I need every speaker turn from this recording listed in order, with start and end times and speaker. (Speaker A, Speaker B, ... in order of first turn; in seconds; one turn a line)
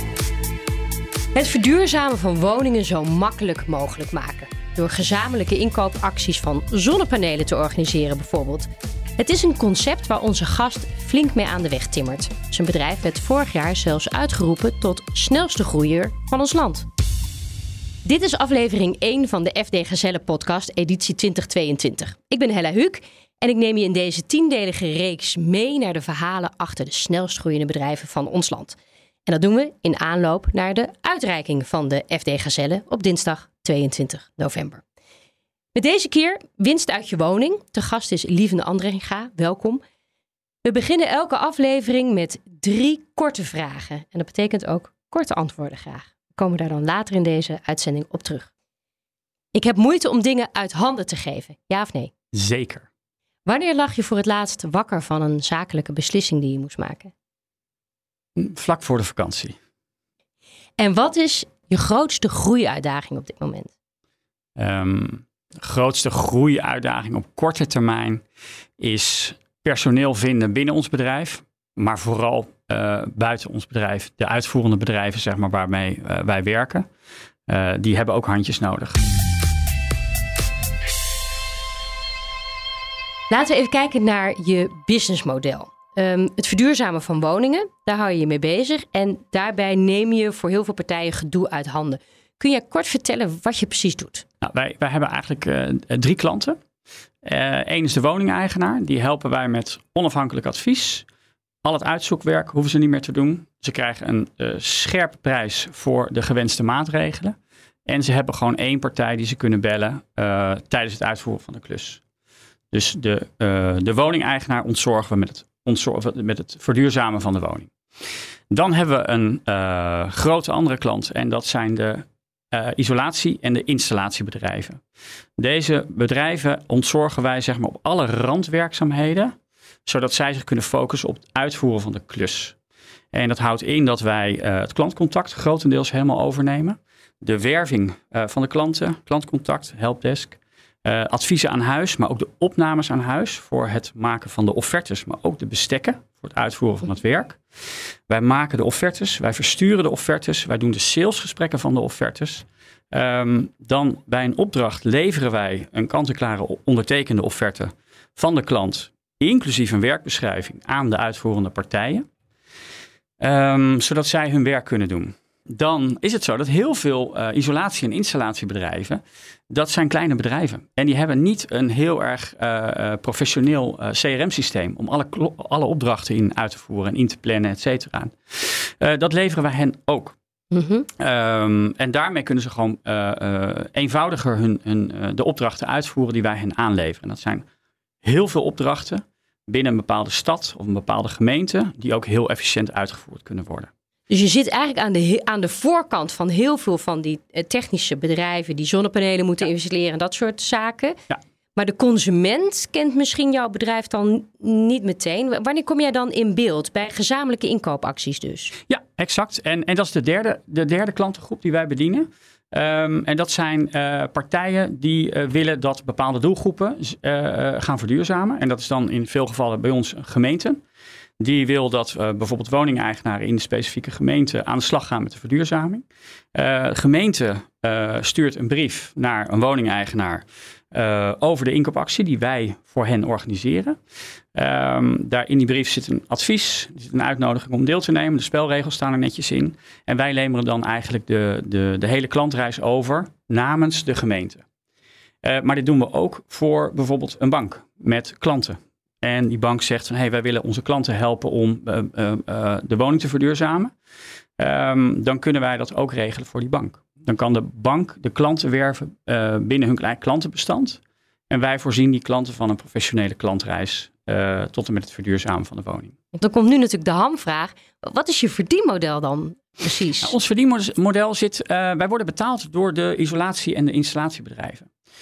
Speaker A: 1.3-16.9
Speaker A: 18.1-34.8
Speaker A: 35.7-39.8
Speaker A: 40.6-48.5
Speaker A: 49.5-52.1
Speaker B: 52.3-52.9
Speaker A: 53.5-57.1
Speaker B: 58.4-59.6
Speaker A: 60.8-63.7
Speaker B: 64.6-68.2
Speaker B: 68.8-76.9
Speaker B: 77.5-79.0
Speaker A: 83.3-94.2
Speaker B: 94.4-96.6
Speaker B: 97.2-101.1
Speaker B: 101.6-107.3
Speaker B: 107.9-112.0
Speaker B: 112.7-117.7
Speaker B: 118.5-124.8
Speaker B: 125.4-129.3
Speaker B: 129.9-132.6
Speaker B: 133.1-147.4
Speaker B: 148.1-162.1
Speaker B: 163.2-180.2
Speaker A: 180.5-180.9
Speaker B: 181.0-187.4
Speaker B: 188.0-193.7
Speaker A: 194.1-201.0
Speaker A: 201.6-208.6
Speaker B: 208.7-220.6
Speaker B: 221.2-233.8
Speaker B: 234.3-244.4
Speaker B: 245.2-253.7
Speaker B: 254.4-260.8
Speaker B: 261.3-265.9
Speaker A: 266.1-270.2
Speaker B: 270.0-274.7